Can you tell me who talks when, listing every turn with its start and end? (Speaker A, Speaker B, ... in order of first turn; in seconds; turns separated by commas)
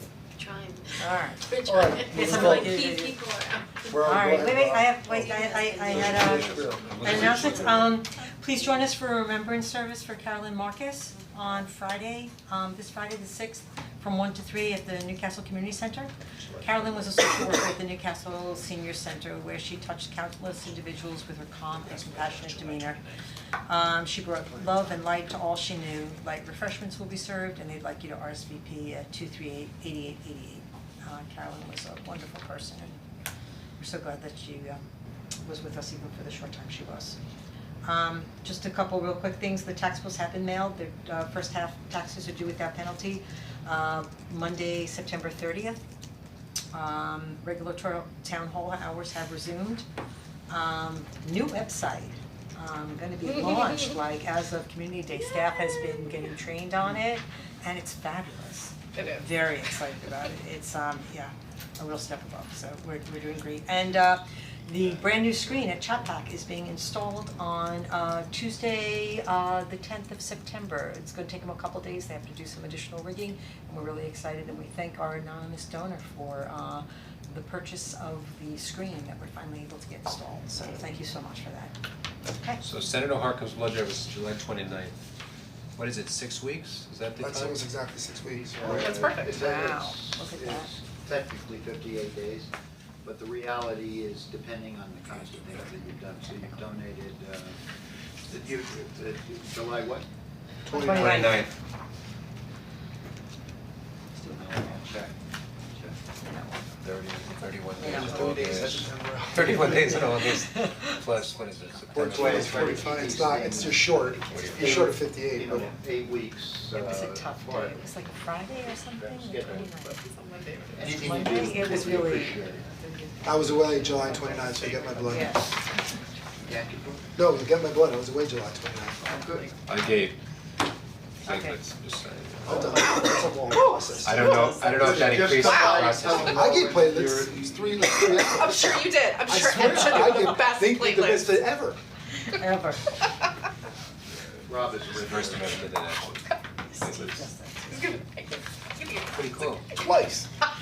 Speaker A: 0.4-4.0, Speaker B: 1.0-3.2, Speaker C: 1.6-2.8, Speaker C: 3.9-7.8, Speaker B: 4.0-23.0, Speaker A: 4.5-7.1, Speaker D: 5.9-8.0, Speaker C: 16.4-17.6, Speaker B: 23.6-33.0, Speaker B: 33.8-34.8, Speaker B: 35.4-37.2, Speaker B: 37.8-45.8, Speaker B: 46.7-49.8, Speaker B: 50.5-81.7, Speaker E: 55.2-56.3, Speaker E: 58.9-59.3, Speaker B: 82.3-82.6, Speaker D: 82.6-85.0, Speaker D: 85.8-87.6, Speaker C: 87.2-89.0, Speaker F: 88.5-92.5, Speaker E: 88.6-89.4, Speaker B: 89.1-90.7, Speaker F: 93.0-97.6, Speaker F: 98.3-100.1, Speaker C: 100.7-101.4, Speaker B: 100.7-101.5, Speaker D: 100.9-101.5, Speaker B: 104.1-104.6, Speaker F: 104.2-105.1, Speaker B: 106.1-106.8, Speaker F: 106.8-107.2, Speaker D: 106.8-112.9, Speaker B: 107.8-108.4, Speaker C: 107.9-110.0, Speaker B: 109.6-111.2, Speaker C: 111.9-115.7, Speaker F: 111.9-117.8, Speaker D: 114.1-114.9, Speaker B: 116.7-120.0, Speaker F: 118.5-119.7, Speaker E: 119.4-121.8, Speaker F: 120.8-122.7, Speaker B: 120.8-126.0, Speaker C: 123.2-125.5, Speaker E: 124.5-125.3, Speaker F: 126.4-127.2, Speaker C: 127.2-129.2, Speaker F: 129.0-129.5, Speaker B: 129.2-129.5, Speaker D: 129.7-130.2, Speaker D: 131.2-132.9, Speaker B: 131.2-131.6, Speaker C: 132.4-134.8, Speaker E: 133.5-134.6, Speaker D: 134.0-136.6, Speaker F: 134.6-138.5, Speaker E: 135.3-136.1, Speaker C: 136.1-141.8, Speaker E: 137.9-141.5, Speaker B: 142.2-142.9, Speaker F: 144.2-145.8, Speaker D: 144.9-147.3, Speaker B: 146.7-147.9, Speaker E: 147.7-149.8, Speaker D: 149.1-149.7, Speaker C: 149.7-150.3